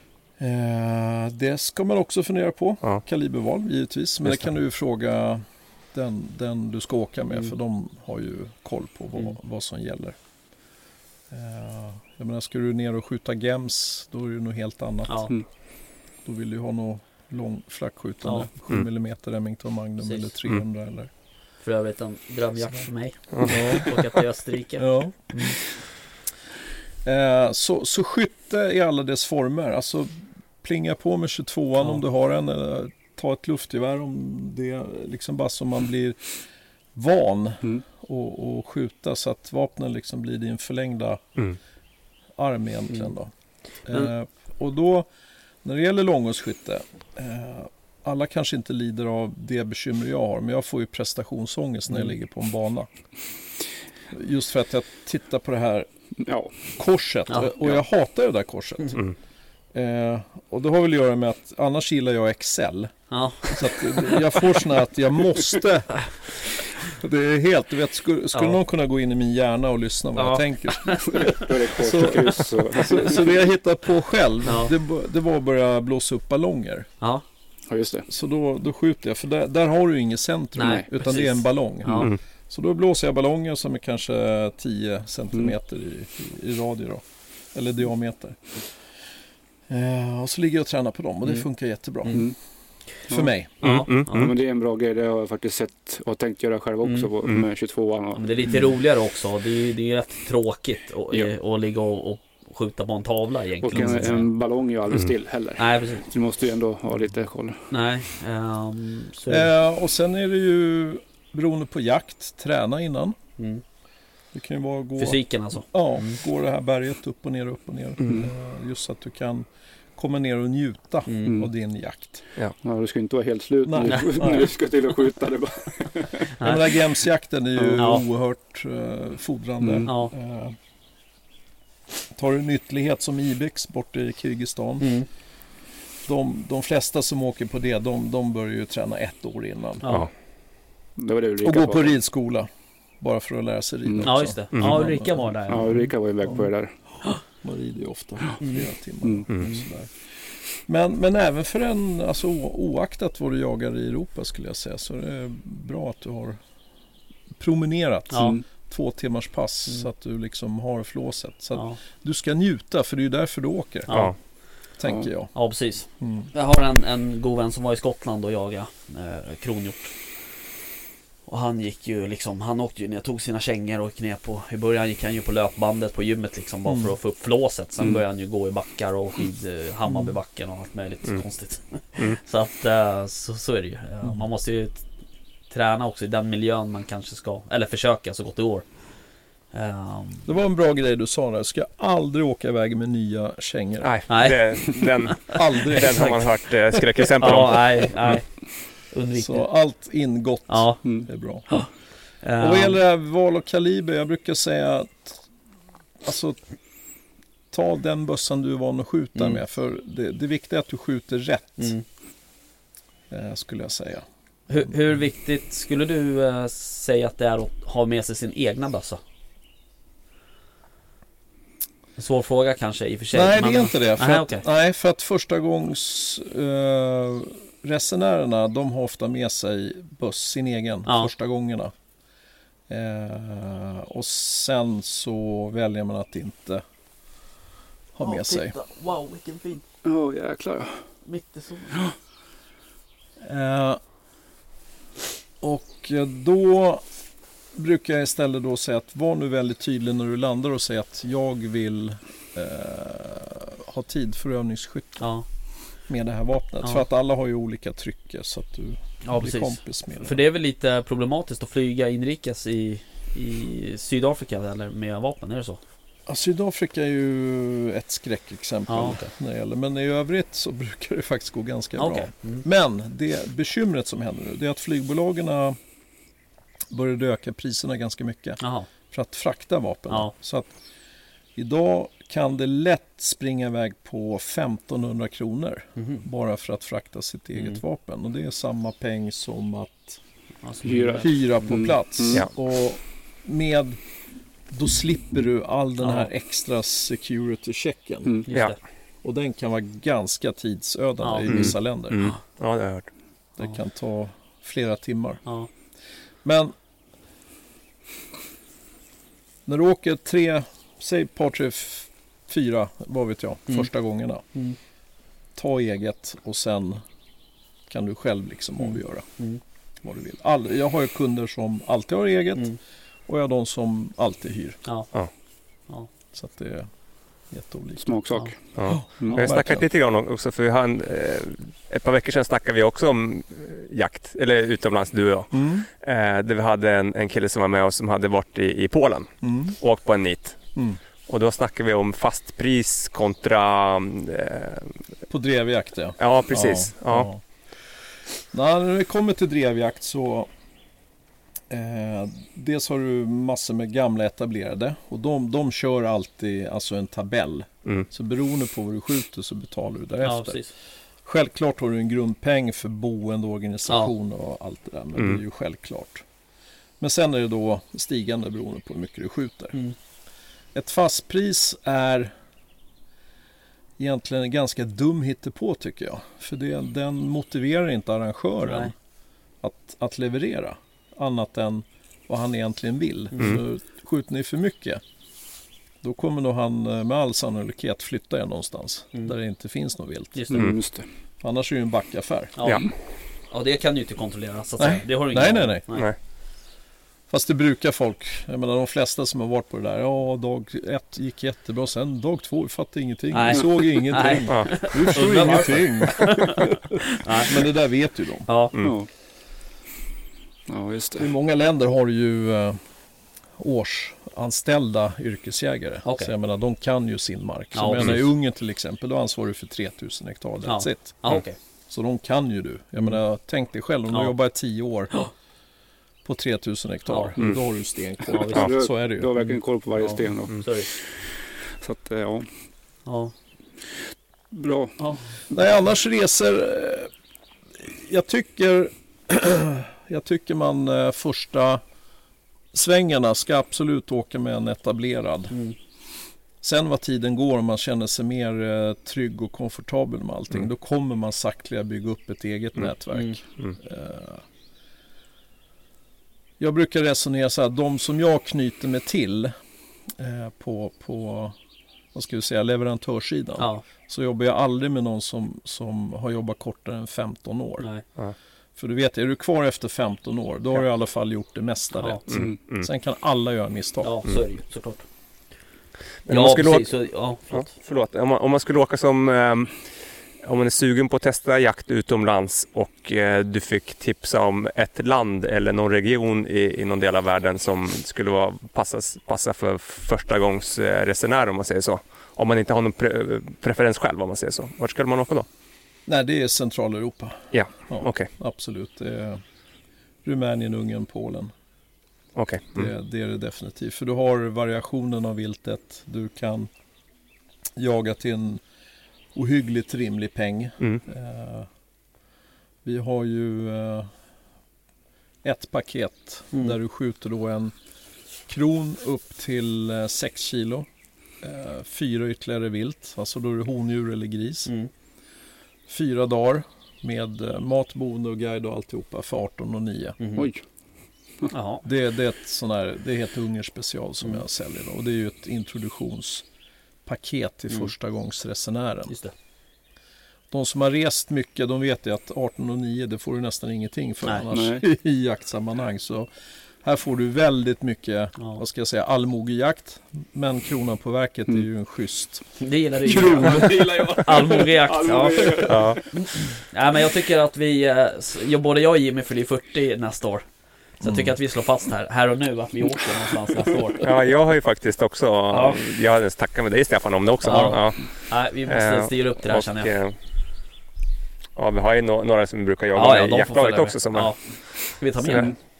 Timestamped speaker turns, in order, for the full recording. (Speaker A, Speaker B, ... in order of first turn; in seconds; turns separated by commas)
Speaker A: 0.4-10.2, Speaker A: 11.3-15.3, Speaker B: 15.1-15.3, Speaker A: 16.2-21.1, Speaker B: 20.0-20.3, Speaker B: 21.6-25.6, Speaker A: 23.4-24.0, Speaker A: 24.8-25.2, Speaker A: 27.0-36.2, Speaker A: 36.9-41.2, Speaker A: 42.4-43.3, Speaker A: 43.9-45.1, Speaker A: 45.6-52.9, Speaker A: 54.1-55.9, Speaker C: 56.2-56.5, Speaker A: 56.8-59.0, Speaker A: 59.7-62.9, Speaker B: 63.1-64.2, Speaker A: 63.4-66.0, Speaker A: 66.8-76.9, Speaker B: 70.2-71.5, Speaker C: 71.0-73.3, Speaker B: 74.5-74.7, Speaker C: 77.7-78.1, Speaker A: 78.1-88.6, Speaker B: 80.5-82.1, Speaker A: 89.7-92.3, Speaker C: 92.1-92.3, Speaker A: 93.1-93.6, Speaker B: 93.6-94.3, Speaker D: 93.6-94.3, Speaker C: 94.1-98.5, Speaker B: 96.8-97.1, Speaker B: 98.1-104.3, Speaker C: 103.6-107.6, Speaker B: 105.6-106.0, Speaker B: 107.7-109.5, Speaker A: 109.3-113.2, Speaker B: 113.4-113.6, Speaker A: 114.3-115.2, Speaker B: 115.0-116.2, Speaker A: 115.7-122.2, Speaker B: 121.0-121.4, Speaker C: 122.6-126.3, Speaker A: 123.6-124.5, Speaker B: 126.4-126.7, Speaker A: 126.4-130.6, Speaker B: 127.8-128.0, Speaker C: 129.6-129.9, Speaker B: 129.8-130.1, Speaker A: 132.1-134.9, Speaker B: 134.8-135.1, Speaker A: 136.0-140.0, Speaker B: 139.8-140.1, Speaker C: 141.0-141.9, Speaker A: 141.4-142.5, Speaker A: 143.0-146.5, Speaker B: 144.0-145.8, Speaker D: 144.5-144.8, Speaker C: 145.5-146.7, Speaker A: 147.4-150.0, Speaker B: 148.4-148.7, Speaker B: 149.4-149.6, Speaker A: 150.7-156.4, Speaker A: 157.4-164.0, Speaker B: 158.1-158.4, Speaker C: 158.1-158.4, Speaker B: 161.5-161.8, Speaker B: 163.9-164.1, Speaker D: 163.9-164.1, Speaker A: 164.8-165.3, Speaker B: 165.3-169.9, Speaker A: 166.0-166.3, Speaker B: 171.3-184.8, Speaker A: 176.6-176.9, Speaker A: 179.9-180.1, Speaker B: 185.5-188.6, Speaker B: 189.5-190.3, Speaker A: 190.2-193.9, Speaker D: 193.8-198.1, Speaker B: 194.1-196.2, Speaker A: 195.3-196.2, Speaker B: 197.2-198.3, Speaker B: 198.9-199.4, Speaker A: 199.1-201.5, Speaker B: 200.5-200.8, Speaker B: 202.2-202.8, Speaker A: 202.4-205.2, Speaker A: 206.0-206.4, Speaker A: 207.5-211.8, Speaker B: 209.1-209.4, Speaker B: 211.6-211.8, Speaker A: 213.1-214.1, Speaker B: 214.5-219.0, Speaker B: 222.0-224.4, Speaker A: 223.1-231.7, Speaker A: 232.7-236.6, Speaker A: 237.9-238.6, Speaker B: 238.0-239.6, Speaker C: 239.8-240.8, Speaker B: 241.0-241.8, Speaker A: 243.2-243.8, Speaker A: 245.4-246.8, Speaker A: 247.5-255.1, Speaker B: 255.0-255.2, Speaker A: 255.9-260.2, Speaker B: 259.0-265.6, Speaker A: 266.1-275.6, Speaker B: 268.7-269.1, Speaker B: 271.8-272.4, Speaker A: 276.7-278.4, Speaker B: 278.4-278.7, Speaker A: 278.9-280.5, Speaker A: 281.4-290.0, Speaker B: 285.8-286.0, Speaker B: 290.4-291.6, Speaker C: 290.6-292.2, Speaker A: 291.0-293.8, Speaker A: 294.5-298.2, Speaker B: 295.8-296.1, Speaker B: 298.3-298.6, Speaker A: 299.0-302.0, Speaker B: 301.0-302.2, Speaker D: 301.2-302.9, Speaker A: 303.4-305.2, Speaker A: 306.2-306.5, Speaker A: 309.4-314.2, Speaker A: 315.4-316.8, Speaker A: 317.7-319.1, Speaker B: 318.6-319.4, Speaker A: 319.8-322.6, Speaker A: 323.1-324.6, Speaker A: 326.1-326.7, Speaker A: 327.3-328.0, Speaker C: 327.8-328.4, Speaker D: 328.6-340.4, Speaker A: 328.7-329.6, Speaker A: 335.3-335.7, Speaker A: 339.2-339.6, Speaker D: 341.1-344.7, Speaker A: 345.1-347.2, Speaker D: 346.0-347.1, Speaker A: 348.3-350.3, Speaker A: 351.5-360.4, Speaker B: 360.0-360.5, Speaker A: 361.0-366.0, Speaker A: 366.8-369.6, Speaker A: 370.5-372.1, Speaker A: 373.8-378.7, Speaker B: 378.4-378.7, Speaker A: 379.4-384.8, Speaker B: 383.1-383.4, Speaker A: 385.8-390.3, Speaker B: 390.1-390.5, Speaker C: 390.3-390.9, Speaker A: 391.2-392.4, Speaker B: 392.4-392.6, Speaker B: 393.3-395.9, Speaker A: 394.6-395.6, Speaker A: 397.1-408.3, Speaker B: 403.1-407.4, Speaker B: 408.3-408.5, Speaker C: 408.6-408.9, Speaker C: 410.5-411.1, Speaker A: 411.0-412.6, Speaker A: 413.4-420.9, Speaker B: 415.8-416.1, Speaker B: 417.5-418.0, Speaker B: 420.4-421.4, Speaker A: 421.7-424.9, Speaker A: 426.0-429.1, Speaker B: 426.9-427.1, Speaker B: 428.1-428.5, Speaker C: 428.2-432.3, Speaker B: 429.1-430.7, Speaker B: 432.9-433.1, Speaker C: 434.3-434.8, Speaker B: 434.8-435.0, Speaker A: 435.3-436.9, Speaker A: 437.6-441.6, Speaker A: 442.5-445.3, Speaker A: 446.4-454.2, Speaker A: 456.4-459.3, Speaker A: 460.0-461.4, Speaker A: 461.9-467.6, Speaker B: 463.4-463.6, Speaker A: 468.6-474.0, Speaker B: 471.8-472.0, Speaker D: 472.1-472.7, Speaker C: 472.1-472.4, Speaker B: 473.8-474.8, Speaker D: 476.1-476.7, Speaker B: 476.1-477.5, Speaker D: 477.3-479.6, Speaker D: 480.2-495.3, Speaker A: 495.9-499.2, Speaker D: 497.3-498.1, Speaker A: 500.0-501.3, Speaker D: 502.1-502.7, Speaker A: 502.5-506.5, Speaker A: 507.6-508.4, Speaker A: 509.1-511.5, Speaker A: 512.6-513.9, Speaker A: 515.2-517.5, Speaker A: 518.3-520.7, Speaker A: 521.2-524.5, Speaker A: 525.7-530.0, Speaker B: 530.0-530.3, Speaker C: 530.1-530.4, Speaker B: 531.3-531.6, Speaker A: 531.6-536.2, Speaker A: 536.9-538.9, Speaker B: 538.9-539.1, Speaker A: 540.3-546.1, Speaker B: 544.0-544.3, Speaker C: 544.3-544.6, Speaker A: 546.6-554.3, Speaker B: 552.4-560.2, Speaker C: 552.9-555.8, Speaker D: 555.5-555.8, Speaker A: 560.8-561.1, Speaker B: 560.8-563.9, Speaker D: 563.8-569.9, Speaker B: 565.3-565.6, Speaker B: 567.2-569.7, Speaker D: 571.4-575.3, Speaker B: 572.7-575.4